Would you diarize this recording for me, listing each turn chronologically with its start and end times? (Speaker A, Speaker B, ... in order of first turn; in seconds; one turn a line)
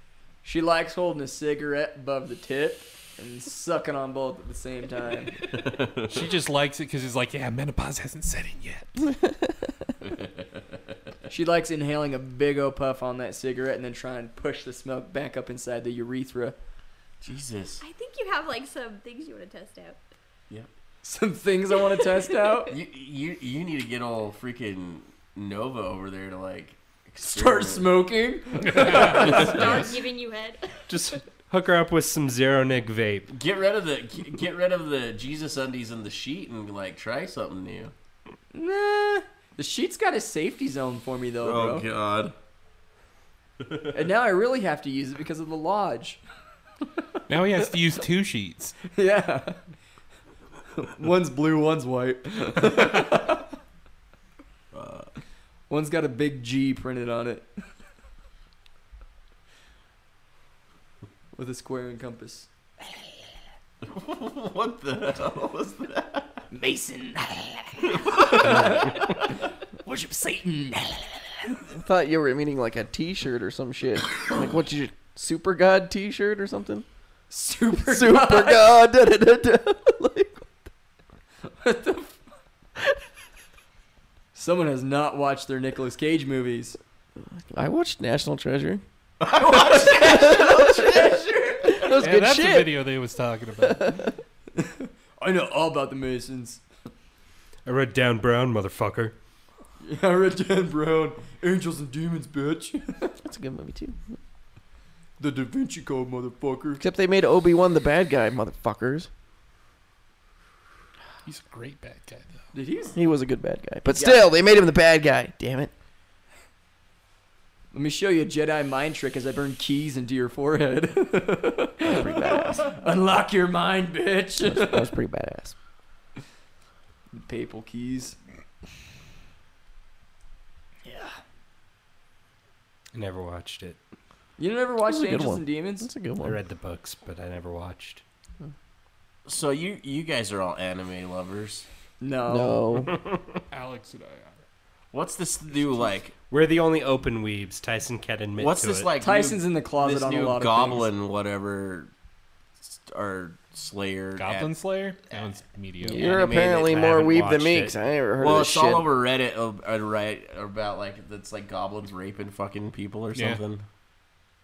Speaker A: 0.4-5.3
Speaker B: 5.5-6.3
Speaker C: 6.1-9.1
Speaker B: 10.0-10.6
Speaker A: 11.3-16.6
Speaker B: 17.2-17.8
Speaker D: 17.8-20.0
Speaker A: 21.0-22.7
Speaker B: 22.7-27.9
Speaker A: 27.2-29.7
Speaker C: 28.7-29.2
Speaker D: 29.1-30.9
Speaker E: 30.9-33.3
Speaker B: 33.3-37.9
Speaker A: 38.5-41.9
Speaker B: 41.4-42.4
Speaker B: 43.6-43.9
Speaker A: 43.9-46.2
Speaker C: 47.3-48.8
Speaker A: 48.9-49.6
Speaker A: 50.8-53.5
Speaker B: 54.7-55.1
Speaker A: 55.7-57.5
Speaker A: 61.3-62.5
Speaker B: 63.8-66.4
Speaker A: 66.5-69.1
Speaker B: 67.9-69.2
Speaker A: 69.8-71.2
Speaker F: 71.7-76.9
Speaker A: 77.3-78.7
Speaker F: 77.8-80.5
Speaker A: 81.5-82.2
Speaker A: 84.3-86.8
Speaker F: 87.5-88.8
Speaker B: 89.2-92.0
Speaker A: 89.5-90.5
Speaker F: 90.0-90.8
Speaker F: 91.7-92.8
Speaker C: 92.0-94.1
Speaker F: 93.6-94.1
Speaker A: 94.5-96.6
Speaker E: 97.6-99.1
Speaker A: 99.8-103.1
Speaker F: 103.2-104.0
Speaker A: 105.2-106.8
Speaker F: 106.8-109.1
Speaker C: 111.2-112.4
Speaker A: 112.5-113.0
Speaker F: 112.9-115.7
Speaker A: 113.9-114.2
Speaker A: 117.7-124.9
Speaker F: 121.8-122.7
Speaker F: 124.4-125.5
Speaker A: 127.1-128.2
Speaker A: 130.8-131.2
Speaker E: 132.9-133.8
Speaker A: 134.4-135.9
Speaker F: 134.8-136.4
Speaker E: 136.2-138.0
Speaker B: 139.2-141.7
Speaker A: 142.0-142.9
Speaker F: 142.3-142.9
Speaker C: 143.5-144.4
Speaker B: 144.9-146.1
Speaker E: 146.3-148.9
Speaker B: 148.4-151.9
Speaker A: 149.0-150.9
Speaker B: 152.6-154.5
Speaker C: 154.2-156.2
Speaker F: 155.8-158.9
Speaker B: 155.9-156.8
Speaker E: 156.1-157.7
Speaker B: 158.2-163.6
Speaker C: 163.1-163.4